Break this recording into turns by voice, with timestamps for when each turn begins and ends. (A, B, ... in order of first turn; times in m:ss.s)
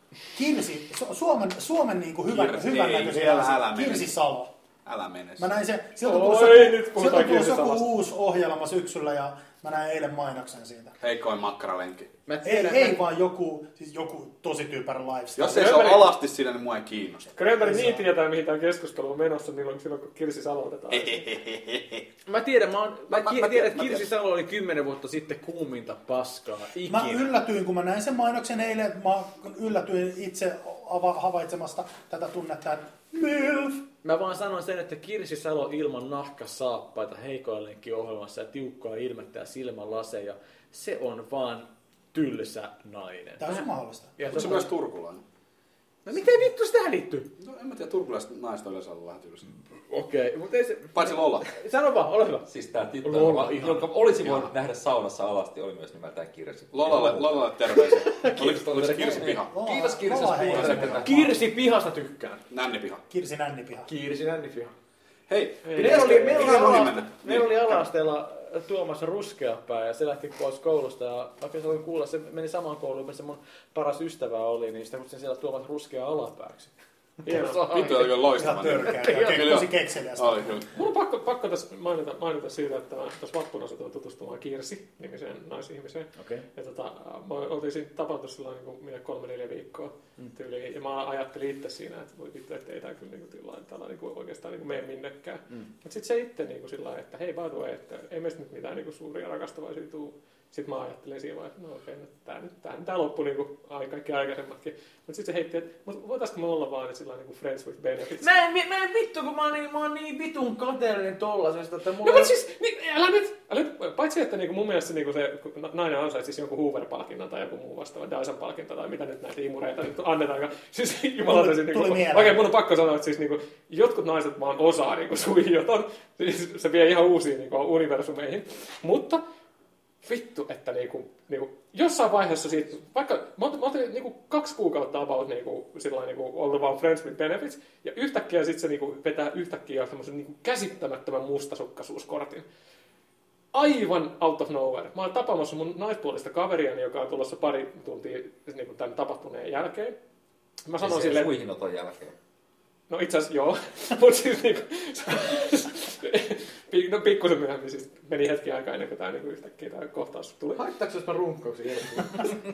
0:00.3-0:04.5 A
0:02.3-0:04.1 B
0:04.8-0:05.5 B
0:05.4-0:10.9 A
0:06.0-0:07.9 C
0:11.0-0:12.1 B
0:12.3-0:13.0 D
0:12.4-0:15.9 A
0:15.4-0:17.3 B
0:15.5-0:16.1 C
0:17.3-0:21.2 C
0:17.6-0:18.0 A
0:20.9-0:22.0 B
0:22.2-0:27.2 D
0:23.2-0:24.0 B
0:26.8-0:33.8 A
0:34.0-0:43.6 D
0:43.4-0:44.2 A
0:44.2-0:44.7 D
0:44.3-0:45.2 B
0:46.0-0:47.3 D
0:47.4-0:49.4 B
0:49.9-0:52.4 D
0:50.9-0:51.5 B
0:52.5-0:57.5 E
0:53.0-0:53.9 D
0:56.7-0:59.5 B
0:57.7-0:59.3 D
0:58.4-1:01.3 E
0:59.5-1:01.4 A
1:00.5-1:01.0 B
1:01.0-1:02.4 D
1:02.5-1:03.0 B
1:03.1-1:03.9 A
1:03.8-1:04.7 D
1:05.3-1:07.5 B
1:05.6-1:06.4 C
1:05.7-1:16.7 D
1:17.2-1:19.6 D
1:17.2-1:17.7 C
1:17.7-1:20.7 B
1:18.4-1:20.6 A
1:20.7-1:48.3 C
1:26.2-1:26.4 D
1:48.2-1:52.4 D
1:52.0-2:09.2 C
2:01.2-2:02.4 A
2:10.0-2:22.4 C
2:23.5-2:29.9 C
2:30.6-2:31.3 C
2:30.8-2:32.1 E
2:32.9-2:40.6 C
2:40.6-2:42.3 D